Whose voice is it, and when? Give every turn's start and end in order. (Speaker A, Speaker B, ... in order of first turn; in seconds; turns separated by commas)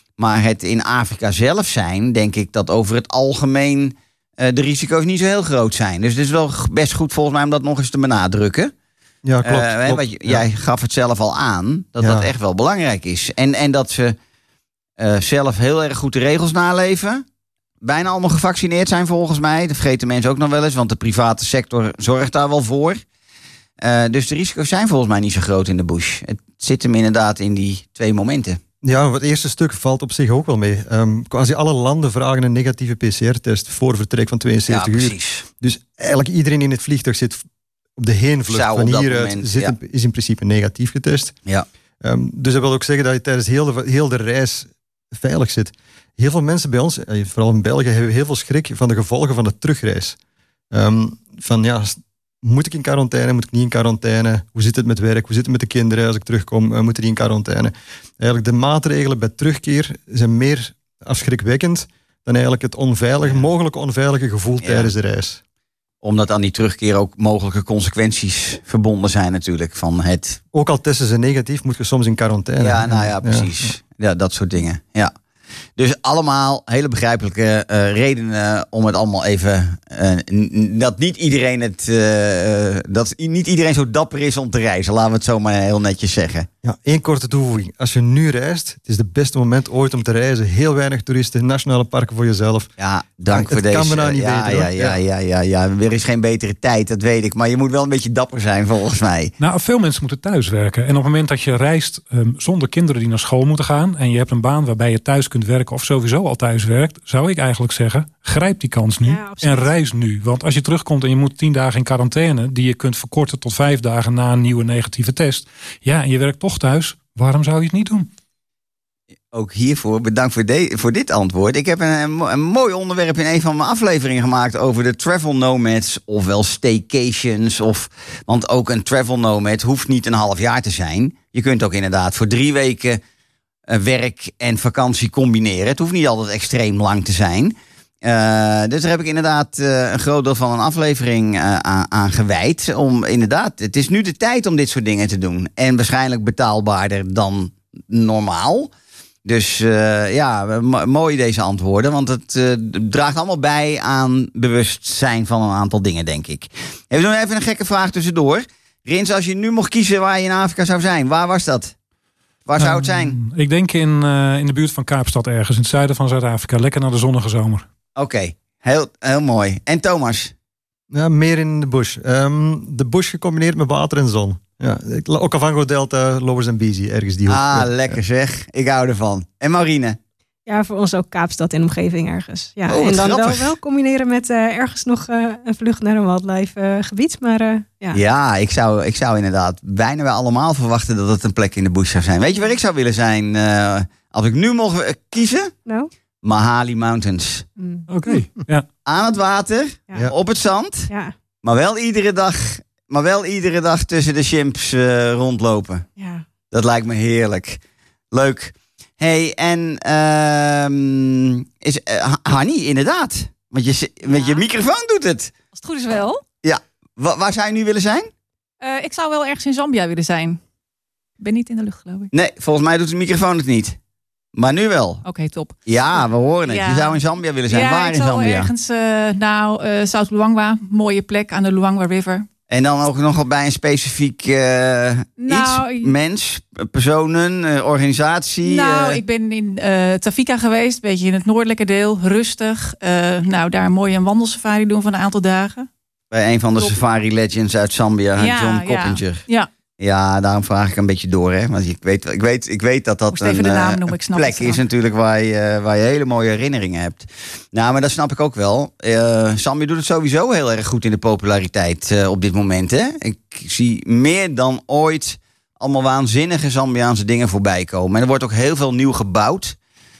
Speaker A: 0.2-8.7, Speaker B: 9.2-10.4, Speaker A: 9.4-14.2, Speaker B: 12.0-12.3, Speaker A: 15.0-17.2, Speaker A: 17.8-23.0, Speaker A: 23.8-28.6, Speaker B: 28.8-37.4, Speaker A: 34.7-35.4, Speaker B: 38.0-41.3, Speaker A: 38.5-39.7, Speaker B: 42.0-50.2, Speaker B: 50.7-65.4, Speaker A: 64.6-64.9, Speaker A: 66.0-70.4, Speaker B: 70.5-73.5, Speaker A: 72.6-75.1, Speaker A: 75.8-86.5, Speaker B: 86.6-92.7, Speaker A: 92.8-99.3, Speaker B: 93.3-95.0, Speaker C: 99.4-118.1, Speaker D: 109.0-109.7, Speaker A: 119.3-133.0, Speaker A: 133.7-148.7, Speaker A: 149.2-161.7, Speaker A: 162.4-163.2, Speaker C: 162.6-167.7, Speaker A: 168.0-170.3, Speaker B: 170.9-178.0, Speaker A: 177.3-180.0, Speaker D: 180.4-188.0, Speaker A: 182.7-183.5, Speaker A: 187.9-195.5, Speaker A: 196.2-197.4, Speaker D: 197.6-197.9, Speaker C: 197.9-198.7, Speaker A: 198.8-200.9, Speaker D: 200.9-201.1, Speaker A: 201.4-205.8, Speaker D: 206.0-206.2, Speaker A: 206.5-207.6, Speaker A: 208.1-215.3, Speaker E: 214.1-214.4, Speaker E: 215.5-216.2, Speaker A: 216.4-218.1, Speaker E: 218.6-220.4, Speaker E: 221.2-222.1, Speaker A: 222.1-223.8, Speaker A: 224.3-225.0, Speaker E: 225.0-232.3, Speaker A: 225.7-228.5, Speaker A: 232.5-239.0, Speaker E: 235.2-235.9, Speaker E: 238.4-245.7, Speaker A: 246.1-249.2, Speaker E: 248.2-249.5, Speaker A: 249.8-269.6, Speaker E: 253.1-254.6